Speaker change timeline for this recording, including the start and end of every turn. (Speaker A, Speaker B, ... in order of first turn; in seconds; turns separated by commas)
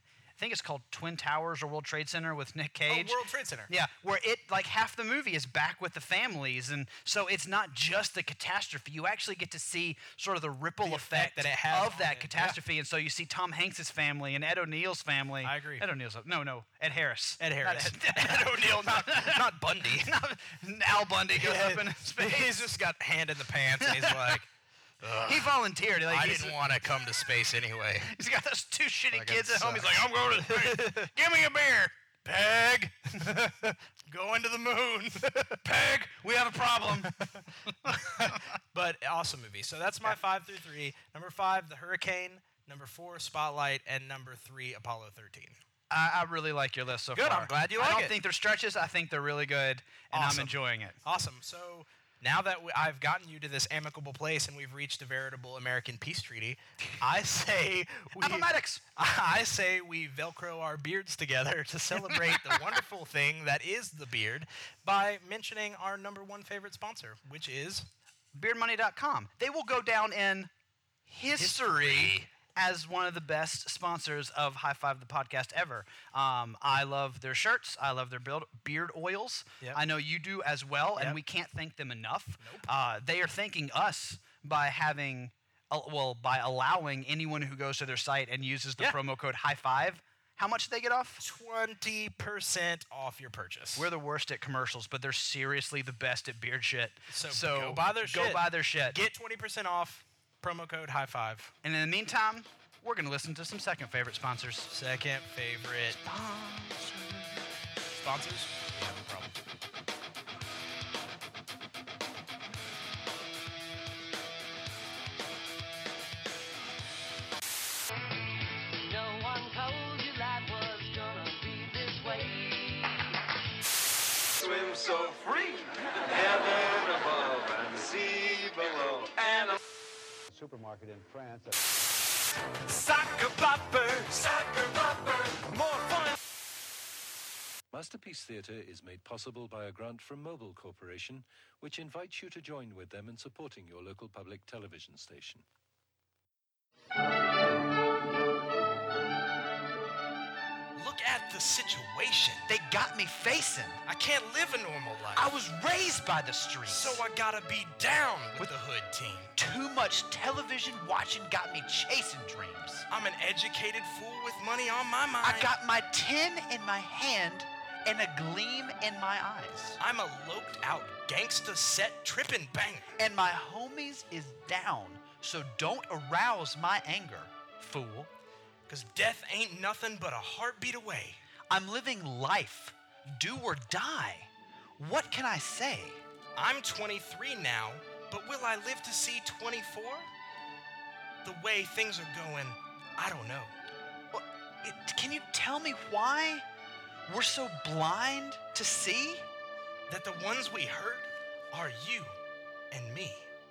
Speaker A: 0.4-22.7, Speaker B: 2.9-3.7, Speaker B: 10.8-12.6, Speaker B: 15.4-15.9, Speaker B: 17.4-20.1, Speaker B: 21.4-24.5, Speaker A: 23.8-24.4, Speaker B: 25.0-25.6, Speaker A: 25.2-26.6, Speaker B: 26.1-28.1, Speaker A: 28.0-31.9, Speaker B: 29.1-31.2, Speaker B: 32.2-35.6, Speaker A: 35.6-37.3, Speaker B: 37.2-45.6, Speaker A: 45.9-51.0, Speaker B: 47.1-48.2, Speaker B: 50.1-67.9, Speaker A: 58.2-58.8, Speaker A: 62.0-62.7, Speaker A: 68.3-70.5, Speaker A: 71.1-91.2, Speaker B: 71.4-72.3, Speaker B: 82.4-82.7, Speaker B: 91.2-93.9, Speaker A: 93.8-99.0, Speaker B: 97.1-101.5, Speaker A: 101.6-104.7, Speaker B: 104.7-106.0, Speaker A: 106.0-107.4, Speaker B: 107.9-109.3, Speaker C: 118.6-123.0, Speaker D: 124.3-129.6, Speaker D: 130.3-131.6, Speaker D: 132.7-136.1, Speaker E: 137.7-145.4, Speaker B: 150.8-152.5, Speaker A: 152.5-153.8, Speaker B: 153.9-155.3, Speaker A: 155.2-157.0, Speaker B: 156.7-159.3, Speaker A: 159.4-162.9, Speaker B: 162.9-165.5, Speaker A: 165.2-169.8, Speaker B: 169.8-172.9, Speaker A: 173.0-178.1, Speaker B: 178.7-181.2, Speaker A: 181.5-186.0, Speaker B: 186.4-190.1, Speaker B: 191.2-193.5, Speaker A: 194.1-196.5, Speaker A: 197.1-199.3, Speaker B: 199.9-202.2, Speaker B: 202.7-203.3